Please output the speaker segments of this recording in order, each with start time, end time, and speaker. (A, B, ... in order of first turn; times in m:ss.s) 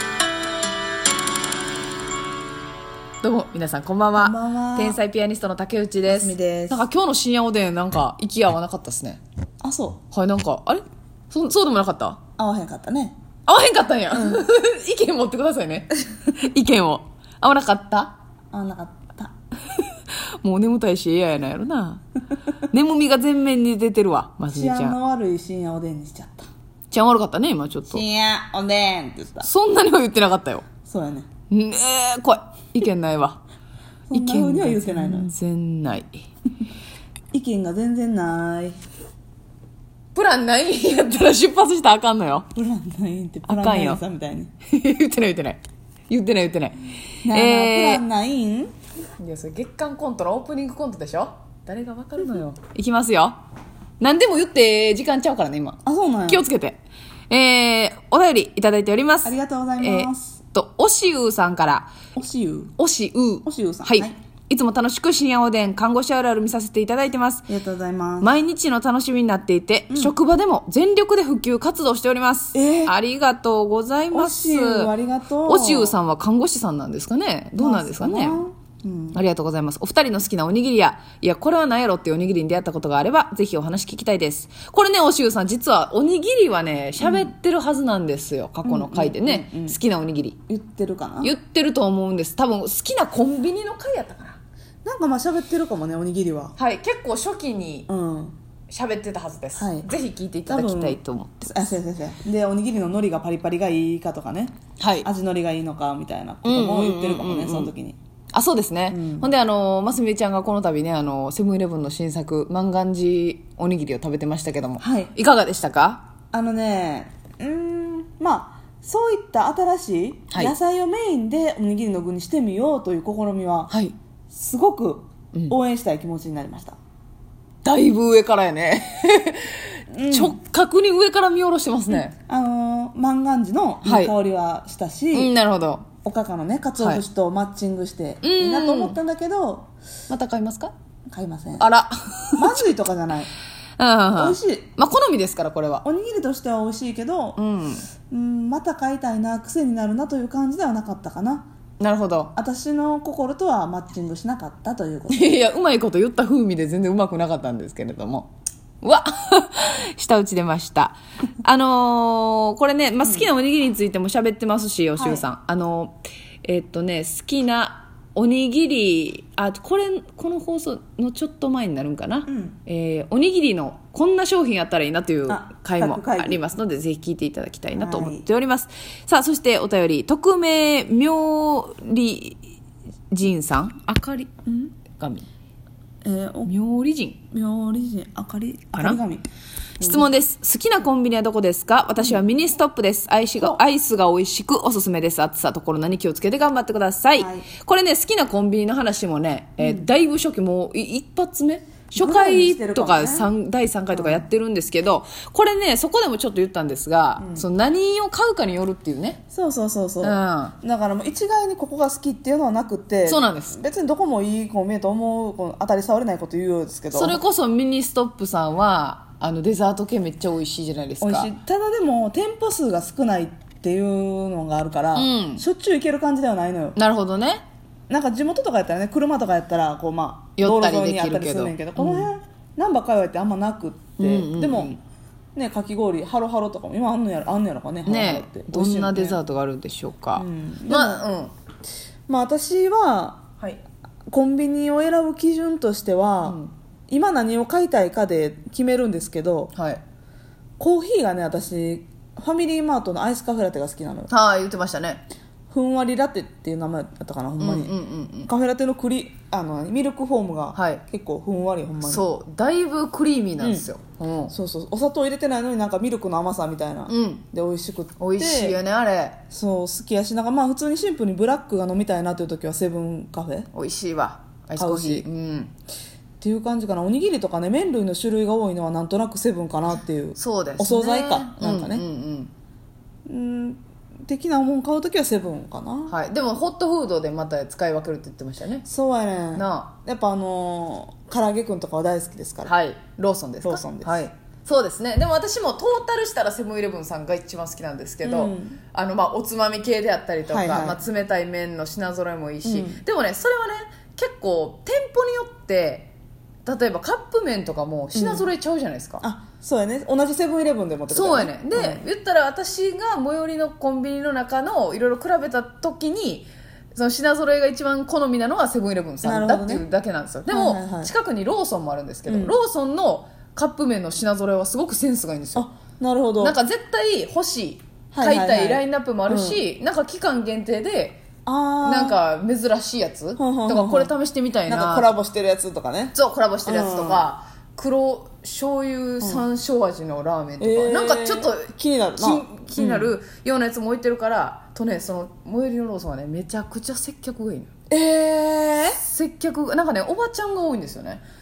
0:03.2-0:09.2 A
0:04.2-0:05.0 B
0:06.1-0:06.8 B
0:09.6-0:10.0 B
0:10.1-0:12.2 A
0:12.4-0:13.2 B
0:13.5-0:18.2 A
0:14.1-0:14.5 B
0:18.5-0:19.3 B
0:19.7-0:22.0 A
0:22.6-0:25.0 A
0:24.5-0:26.5 B
0:26.9-0:28.0 A
0:27.9-0:29.5 B
0:29.4-0:30.6 A
0:30.9-0:31.3 B
0:31.5-0:33.4 A
0:34.1-0:35.3 B
0:34.1-0:36.2 A
0:37.3-0:38.8 B
0:40.2-0:42.5 A
0:42.5-0:44.5 B
0:43.5-0:44.0 A
0:44.7-0:48.0 A
0:47.2-0:48.7 B
0:49.2-0:53.4 A
0:54.0-1:01.9 A
0:55.8-0:56.5 B
0:59.2-1:00.4 B
1:02.2-1:02.7 B
1:02.8-1:07.5 A
1:03.4-1:04.2 B
1:07.5-1:08.3 B
1:08.2-1:14.9 A
1:12.5-1:13.0 B
1:14.1-1:16.0 B
1:15.4-1:18.4 A
1:17.6-1:19.2 B
1:19.1-1:30.4 A
1:27.0-1:27.3 B
1:28.6-1:29.8 B
1:30.5-1:31.3 B
1:31.2-1:34.4 A
1:34.8-1:36.6 B
1:36.6-1:37.9 A
1:37.9-1:38.4 B
1:38.7-1:41.7 A
1:39.6-1:39.9 B
1:40.5-1:48.0 B
1:44.8-1:45.1 A
1:46.4-1:47.7 A
1:48.3-1:56.0 A
1:48.9-1:49.3 B
1:54.8-1:55.1 B
1:56.3-2:03.7 B
2:04.3-2:06.8 B
2:07.6-2:12.1 A
2:09.9-2:10.4 B
2:11.9-2:15.3 B
2:13.8-2:14.1 A
2:15.1-2:15.9 A
2:16.0-2:19.7 B
2:18.2-2:19.0 A
2:20.1-2:20.7 A
2:21.1-2:21.7 B
2:21.6-2:22.6 A
2:22.4-2:23.3 B
2:23.8-2:25.8 A
2:24.2-2:24.7 B
2:25.8-2:27.4 B
2:27.4-2:27.9 A
2:28.1-2:31.5 B
2:31.8-2:32.3 A
2:32.4-2:35.3 B
2:35.1-2:38.3 A
2:38.8-3:02.4 A
2:43.0-2:43.3 B
2:45.0-2:45.2 B
2:52.3-2:52.6 B
2:55.3-2:56.4 B
2:57.7-2:58.2 B
3:03.1-3:04.3 A
3:04.5-3:04.7 B
3:04.9-3:05.3 A
3:06.0-3:06.5 B
3:06.5-3:07.2 A
3:07.3-3:09.3 B
3:09.8-3:10.1 B
3:09.8-3:29.2 A
3:17.2-3:17.5 B
3:19.6-3:19.9 B
3:22.0-3:23.3 B
3:23.9-3:24.2 B
3:27.2-3:27.5 B
3:29.3-3:37.2 B
3:30.0-3:30.6 A
3:33.1-3:33.6 A
3:36.9-3:41.3 A
3:41.0-3:46.8 B
3:45.0-3:45.4 A
3:46.8-3:47.4 A
3:47.9-3:54.8 B
3:50.4-3:52.1 A
3:54.0-3:54.8 A
3:55.4-3:59.2 B
3:57.8-4:01.3 A
4:00.2-4:01.0 B
4:02.1-4:03.3 B
4:04.1-4:09.5 B
4:06.2-4:06.5 A
4:09.6-4:09.8 A
4:10.6-4:14.1 B
4:14.1-4:15.0 A
4:15.5-4:17.8 B
4:17.4-4:18.3 A
4:18.3-4:22.1 B
4:20.5-4:20.8 A
4:21.8-4:24.3 A
4:23.4-4:23.7 B
4:24.3-4:28.6 B
4:26.9-4:27.2 A
4:28.0-4:29.2 A
4:29.3-4:33.5 B
4:33.5-4:35.5 A
4:34.6-4:35.1 B
4:36.2-4:41.8 B
4:40.2-4:42.3 A
4:43.1-4:45.9 B
4:45.9-4:48.6 A
4:48.6-4:52.5 B
4:49.4-4:49.7 A
4:52.4-5:05.9 A
4:53.4-4:54.0 B
4:58.0-4:58.6 B
5:00.3-5:00.8 B
5:02.4-5:02.8 B
5:06.4-5:09.0 A
5:07.9-5:08.3 B
5:09.0-5:11.8 B
5:10.9-5:25.5 A
5:19.0-5:19.7 B
5:20.3-5:20.9 B
5:22.1-5:22.4 B
5:25.4-5:26.4 B
5:26.2-5:31.0 A
5:27.9-5:29.4 B
5:31.3-5:32.0 B
5:31.6-5:34.9 A
5:33.2-5:33.9 B
5:34.5-5:37.1 B
5:35.9-5:47.5 A
5:39.0-5:39.3 B
5:40.4-5:42.9 B
5:47.7-5:48.8 B
5:48.6-5:51.0 A